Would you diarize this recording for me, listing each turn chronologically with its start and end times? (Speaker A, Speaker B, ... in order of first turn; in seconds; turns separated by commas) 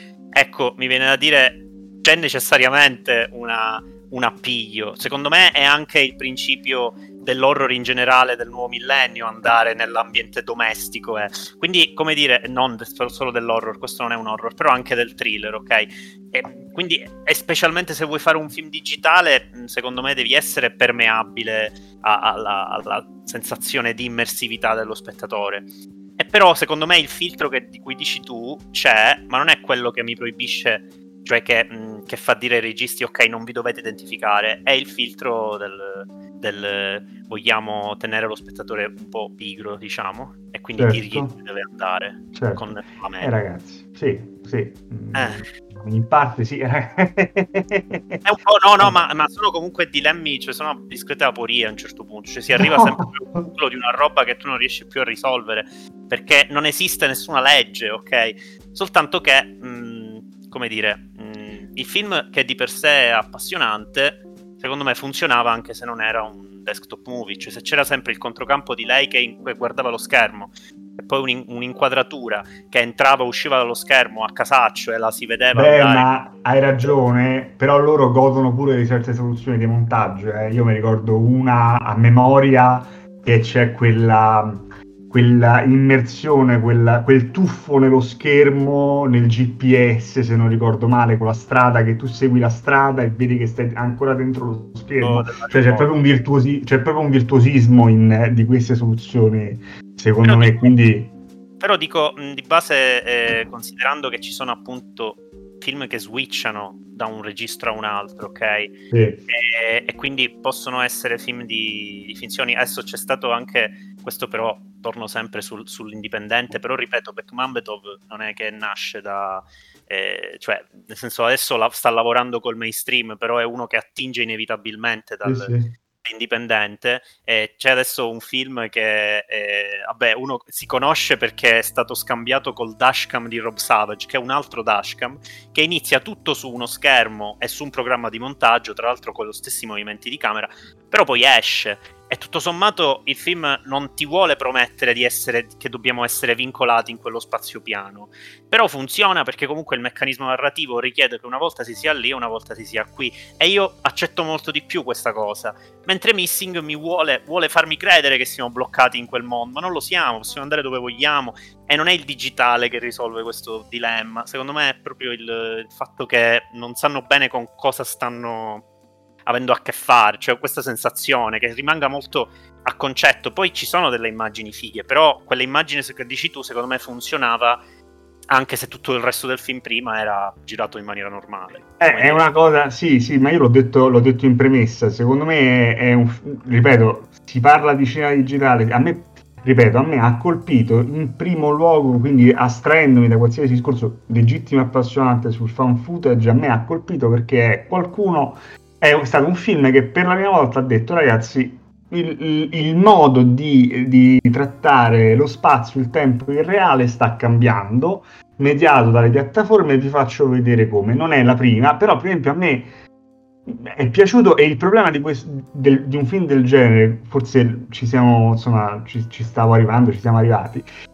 Speaker A: 0.3-43.3, Speaker B: 40.7-41.3, Speaker B: 42.3-48.2, Speaker A: 45.1-45.5, Speaker A: 48.2-76.1, Speaker B: 48.8-49.0, Speaker B: 52.6-53.0, Speaker B: 75.5-101.1, Speaker A: 95.0-95.9, Speaker A: 100.2-100.7, Speaker A: 101.6-108.8, Speaker B: 108.9-109.2, Speaker A: 109.3-168.6, Speaker B: 125.2-125.7, Speaker A: 169.2-177.6, Speaker A: 178.3-182.2, Speaker B: 181.8-212.7, Speaker B: 213.4-220.7